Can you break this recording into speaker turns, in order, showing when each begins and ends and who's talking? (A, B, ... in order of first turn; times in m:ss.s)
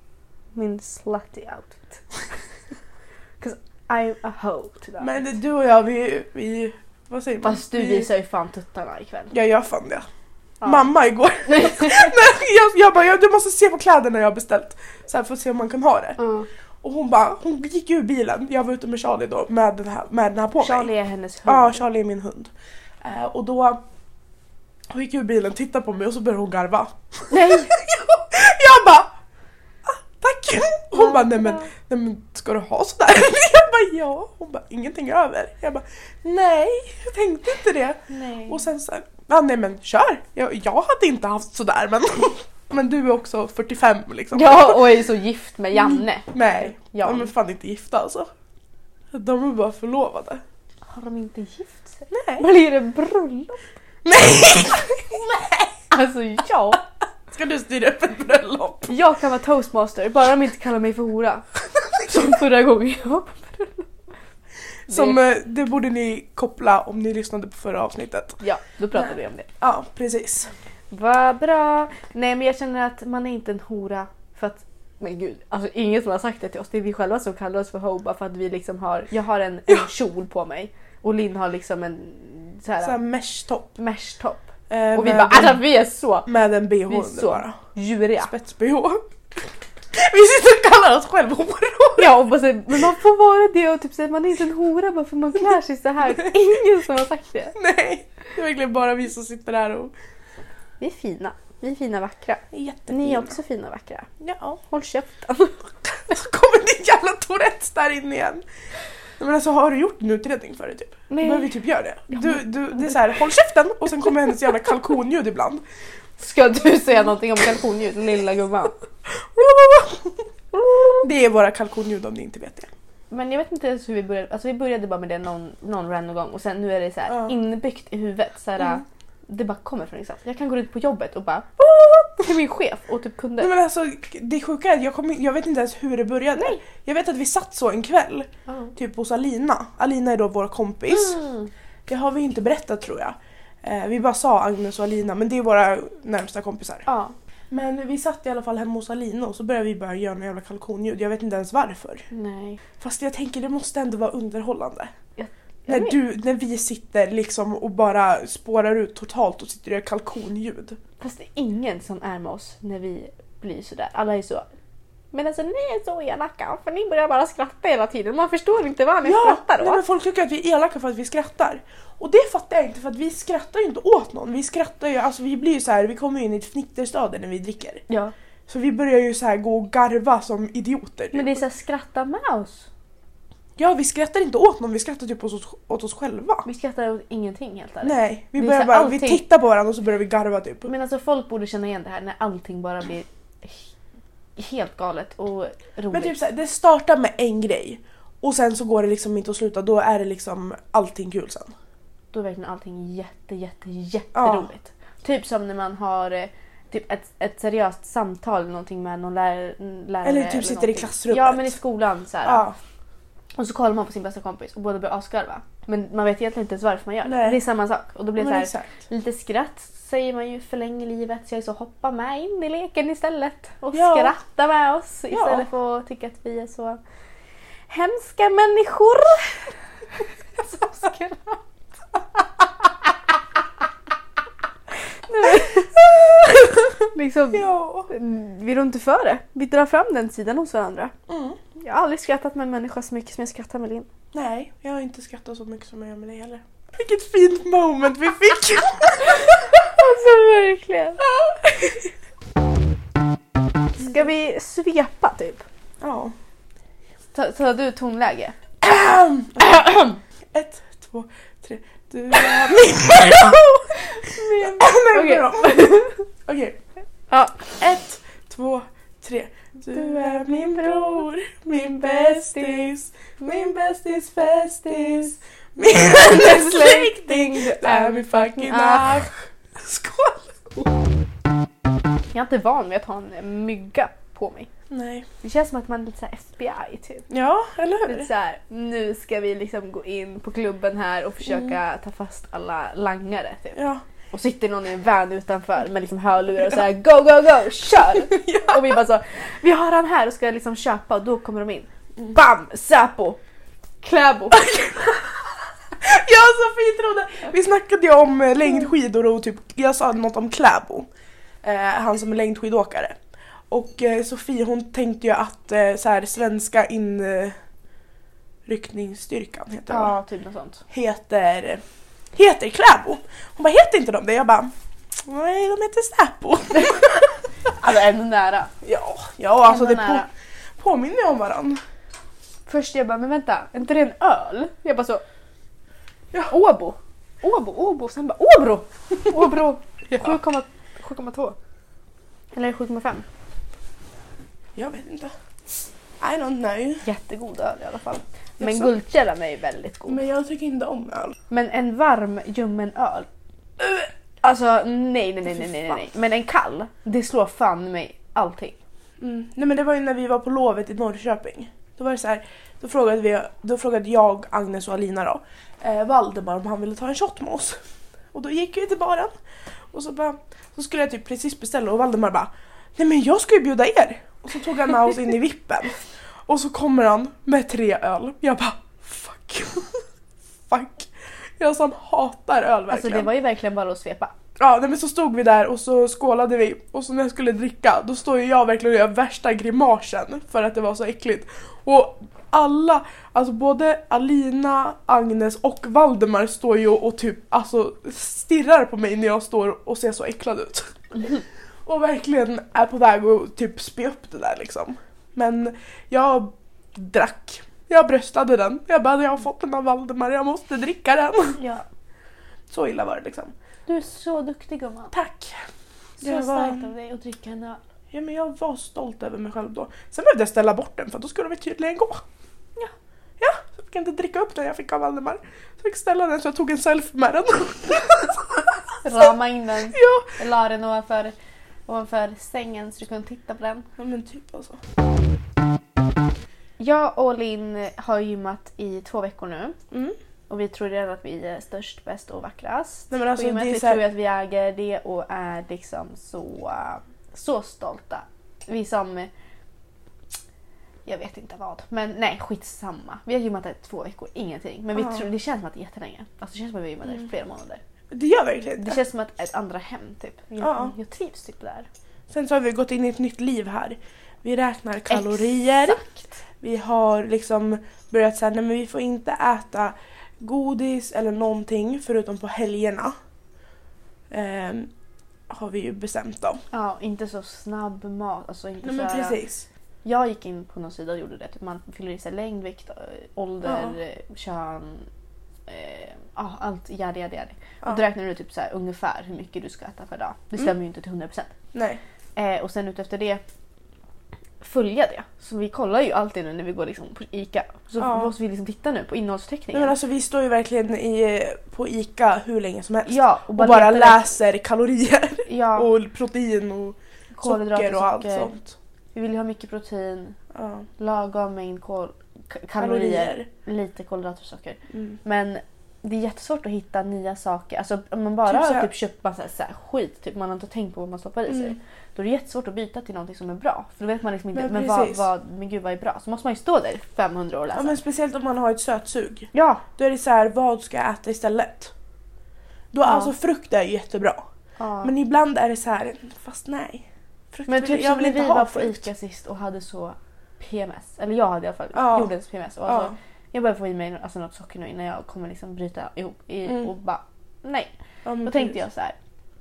0:00.6-0:02.0 A
0:03.4-0:05.2 A
0:05.0-0:08.1 B
0:07.4-0:09.3 A
0:09.3-0:10.1 B
0:10.6-0:10.9 A
0:10.6-0:16.2 B
0:11.4-0:12.1 A
0:16.2-0:16.5 A
0:16.8-0:20.9 B
0:20.6-0:21.8 A
0:21.5-0:22.5 B
0:23.0-0:23.8 B
0:24.9-0:29.1 B
0:27.3-0:27.7 A
0:29.8-0:44.8 B
0:30.9-0:31.7 A
0:38.1-0:38.6 A
0:44.3-0:47.3 A
0:45.8-0:48.3 B
0:49.1-0:50.4 B
0:50.9-0:53.6 A
0:52.1-0:52.5 B
0:54.0-0:55.8 B
0:55.9-0:56.8 A
0:57.3-0:59.0 B
0:58.9-1:01.5 A
1:02.0-1:03.9 A
1:04.9-1:05.2 A
1:04.9-1:08.4 B
1:08.4-1:09.5 A
1:09.6-1:10.5 B
1:10.9-1:23.0 A
1:22.8-1:23.8 B
1:23.8-1:26.3 A
1:24.7-1:25.7 B
1:26.3-1:27.6 B
1:26.9-1:28.3 A
1:28.2-1:29.0 B
1:29.9-1:32.1 B
1:32.0-1:37.6 A
1:37.6-1:39.9 B
1:40.8-1:44.1 A
1:42.5-1:43.4 B
1:44.2-1:44.6 B
1:44.6-1:45.7 A
1:46.1-1:48.4 B
1:49.2-1:55.6 B
1:51.1-1:51.5 A
1:52.1-1:53.0 A
1:56.2-1:58.8 A
1:59.1-2:00.2 B
2:00.5-2:01.1 A
2:01.0-2:02.7 B
2:03.1-2:13.5 A
2:13.4-2:21.2 B
2:16.4-2:16.6 A
2:18.5-2:18.7 A
2:20.9-2:21.5 A
2:21.9-2:26.9 B
2:26.9-2:27.2 A
2:27.5-2:32.1 B
2:32.1-2:32.6 A
2:32.8-2:34.9 B
2:35.2-2:36.0 A
2:35.7-2:40.8 B
2:41.0-2:44.5 A
2:45.1-2:49.8 A
2:49.0-2:57.8 B
2:58.5-3:01.4 B
3:01.1-3:02.7 A
3:03.6-3:06.5 B
3:06.4-3:09.2 A
3:07.8-3:10.7 B
3:10.7-3:13.7 A
3:14.4-3:16.2 A
3:15.9-3:21.5 B
3:22.1-3:32.5 A
3:24.2-3:24.5 B
3:30.0-3:31.6 B
3:32.2-3:32.6 B
3:33.4-3:46.8 A
3:37.0-3:37.4 B
3:38.2-3:38.7 B
3:43.7-3:44.2 B
3:45.1-3:45.5 B
3:47.7-3:49.5 A
3:50.4-3:51.4 A
3:55.1-4:00.9 A
3:57.3-3:57.9 B
4:01.1-4:01.4 B
4:01.6-4:03.9 A
4:04.1-4:09.4 B
4:09.6-4:11.0 A
4:13.8-4:15.4 A
4:15.8-4:16.1 B
4:17.1-4:18.4 A
4:18.6-4:19.7 B
4:19.4-4:20.0 A
4:20.3-4:26.6 B
4:24.0-4:26.0 A
4:27.1-4:27.5 A
4:27.6-4:40.8 B
4:32.3-4:32.6 A
4:35.7-4:39.1 A
4:42.1-4:44.5 A
4:44.7-4:45.1 B
4:45.2-4:47.1 A
4:47.1-4:48.1 B
4:47.9-5:03.2 A
4:53.6-4:53.8 B
4:58.0-4:58.8 B
5:03.8-5:04.5 A
5:04.3-5:05.0 B
5:05.8-5:10.9 B
5:11.4-5:13.0 B
5:13.5-5:17.4 B
5:18.5-5:19.9 B
5:19.7-5:20.6 A
5:20.7-5:21.6 B
5:22.1-5:27.1 B
5:27.6-5:28.5 A
5:28.6-5:31.6 B
5:29.4-5:30.1 A
5:32.5-5:35.0 A
5:36.3-5:41.4 A
5:42.3-5:43.1 A
5:44.6-5:45.1 B
5:46.0-5:46.9 B
5:46.8-5:50.0 A
5:48.4-5:48.7 B
5:49.9-5:51.2 B
5:51.3-5:53.1 A
5:53.7-5:58.6 A
5:55.3-5:55.9 B
5:59.0-6:07.6 B
6:08.1-6:09.1 B
6:09.7-6:19.8 B
6:20.5-6:23.1 B
6:22.7-6:24.1 A
6:24.4-6:41.1 B
6:41.6-6:51.4 B
6:51.4-6:51.6 A
6:52.5-6:53.3 B
6:53.7-6:54.9 A
6:54.9-6:55.4 B
6:56.0-6:57.6 A
6:56.0-6:56.7 B
6:57.9-7:02.0 B
7:03.2-7:09.1 B
7:08.8-7:11.2 A
7:09.7-7:10.1 B
7:11.7-7:13.7 A
7:13.8-7:14.6 B
7:16.6-7:19.6 A
7:20.3-7:29.1 A
7:22.9-7:23.8 B
7:30.9-7:37.6 A
7:34.8-7:35.0 B
7:37.9-7:38.8 B
7:38.6-7:41.7 A
7:40.4-7:40.7 B
7:42.1-7:45.8 B
7:44.9-7:46.2 A
7:46.4-7:53.0 B
7:54.1-7:54.7 B
7:55.3-7:56.4 B
7:56.5-7:59.2 A
7:58.6-7:59.5 B
7:59.8-8:04.9 A
8:03.4-8:03.8 B
8:05.5-8:11.3 A
8:11.5-8:11.8 B
8:12.2-8:13.2 A
8:14.4-8:19.8 A
8:17.8-8:18.1 B
8:19.5-8:28.6 B
8:22.9-8:24.1 A
8:25.3-8:25.7 A
8:27.1-8:28.3 A
8:28.9-8:30.2 A
8:30.4-8:30.7 B
8:30.8-8:47.8 A
8:32.6-8:33.3 B
8:34.7-8:35.0 B
8:38.3-8:38.7 B
8:41.3-8:41.6 B
8:44.3-8:45.1 B
8:47.5-8:51.7 B
8:49.3-8:49.6 A
8:52.7-8:54.2 B
8:52.9-8:53.1 A
8:54.6-8:54.9 A
8:54.8-8:58.9 B
8:57.5-9:07.7 A
9:01.8-9:02.1 B
9:02.7-9:03.0 B
9:08.0-9:08.6 B
9:08.2-9:09.0 A